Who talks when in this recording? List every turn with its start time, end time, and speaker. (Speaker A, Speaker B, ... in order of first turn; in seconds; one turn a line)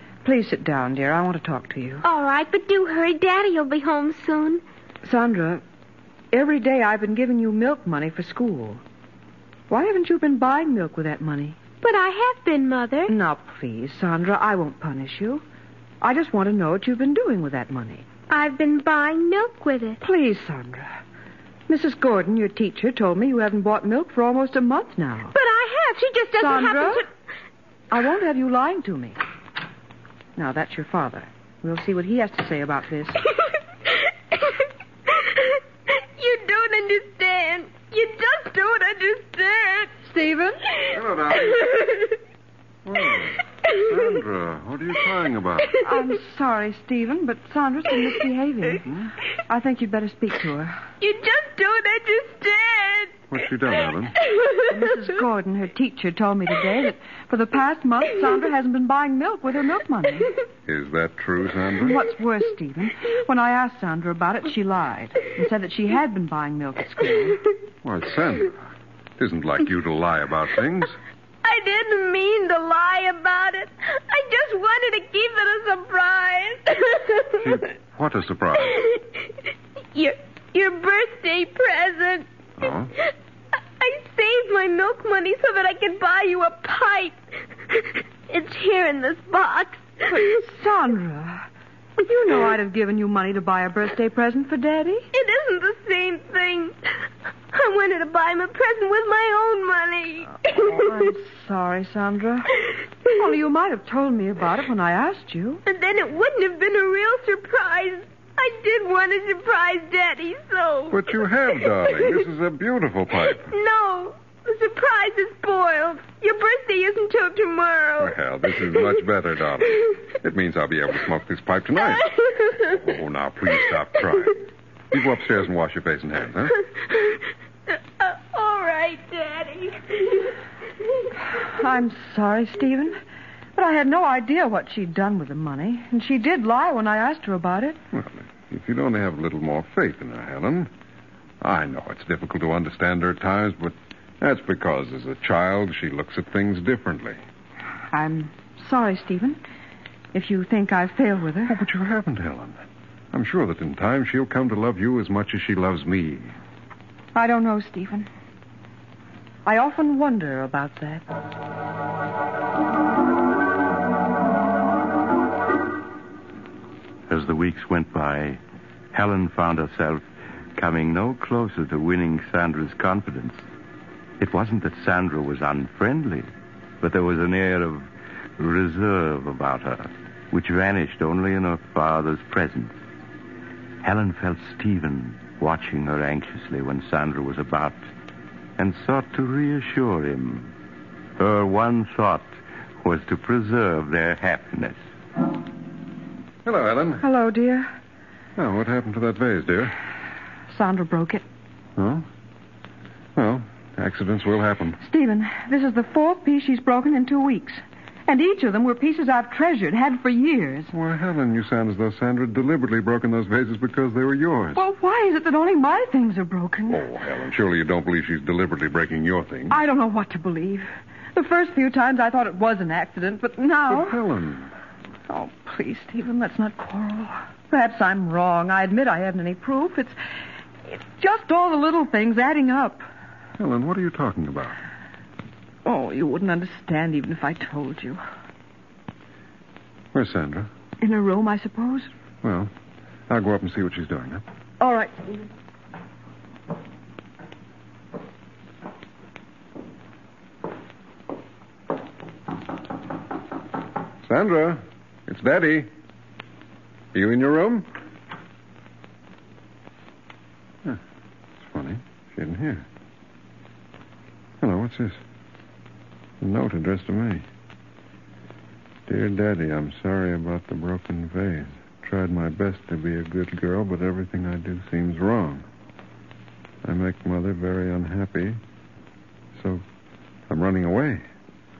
Speaker A: 0.2-2.0
Speaker B: 2.0-4.6
Speaker A: 5.0-5.6
Speaker A: 6.3-8.8
Speaker A: 9.7-11.6
Speaker B: 11.8-13.1
Speaker A: 13.1-15.4
Speaker A: 16.0-18.1
Speaker B: 18.3-20.0
Speaker A: 20.0-20.9
Speaker A: 21.7-25.3
Speaker B: 25.3-27.1
Speaker A: 26.4-27.0
Speaker A: 27.9-29.2
Speaker A: 30.4-33.2
Speaker B: 33.9-39.9
Speaker A: 40.1-40.6
Speaker C: 40.9-41.9
Speaker B: 41.7-42.1
Speaker C: 42.9-45.8
Speaker A: 45.8-48.9
Speaker C: 48.9-49.1
Speaker A: 49.5-50.8
Speaker B: 51.0-53.1
Speaker C: 53.3-54.2
Speaker B: 54.2-54.7
Speaker A: 54.7-60.3
Speaker C: 60.7-62.0
Speaker A: 61.9-67.4
Speaker C: 67.8-71.0
Speaker B: 71.4-77.6
Speaker C: 77.4-78.9
Speaker B: 79.9-82.3
Speaker C: 82.6-82.9
Speaker B: 83.8-87.2
Speaker B: 87.7-90.0
Speaker A: 90.1-91.5
Speaker A: 92.0-95.1
Speaker B: 95.1-96.8
Speaker B: 97.5-100.8
Speaker A: 100.4-102.5
Speaker A: 103.1-105.6
Speaker B: 105.7-111.0
Speaker C: 110.9-113.5
Speaker B: 113.3-118.1
Speaker C: 118.0-122.1
Speaker B: 121.9-122.7
Speaker C: 122.7-126.6
Speaker B: 128.0-130.4
Speaker A: 131.4-133.0
Speaker A: 133.6-137.8
Speaker C: 137.9-140.7
Speaker C: 141.4-147.2
Speaker A: 147.9-149.4
Speaker A: 150.1-151.6
Speaker C: 151.5-152.6
Speaker C: 153.1-156.3
Speaker A: 157.2-158.1
Speaker A: 159.4-161.0
Speaker D: 167.1-168.4
Speaker D: 168.9-170.0
Speaker D: 170.6-173.4
Speaker D: 174.2-176.3
Speaker D: 176.8-177.9
Speaker D: 178.4-182.7
Speaker D: 183.8-187.8
Speaker D: 188.6-190.5
Speaker D: 191.2-192.3
Speaker D: 192.8-194.8
Speaker C: 196.4-197.1
Speaker A: 197.0-197.7
Speaker C: 198.4-199.8
Speaker A: 200.5-201.2
Speaker C: 201.8-202.1
Speaker C: 203.2-204.8
Speaker A: 204.8-210.7
Speaker C: 210.7-214.6
Speaker A: 214.6-216.8
Speaker C: 216.7-219.6
Speaker A: 219.5-224.0
Speaker C: 223.7-224.5
Speaker A: 225.1-229.9
Speaker A: 230.7-232.8
Speaker C: 233.4-234.6
Speaker A: 235.7-238.0
Speaker C: 239.9-240.5
Speaker A: 240.8-241.9
Speaker C: 242.2-242.5
Speaker C: 243.1-244.2
Speaker A: 244.6-245.2
Speaker C: 254.1-255.7
Speaker C: 256.9-257.7
Speaker C: 261.4-262.7
Speaker C: 264.4-265.0
Speaker C: 266.2-267.2
Speaker C: 268.9-275.5
Speaker C: 276.6-278.4
Speaker C: 279.4-279.6
Speaker C: 280.3-281.1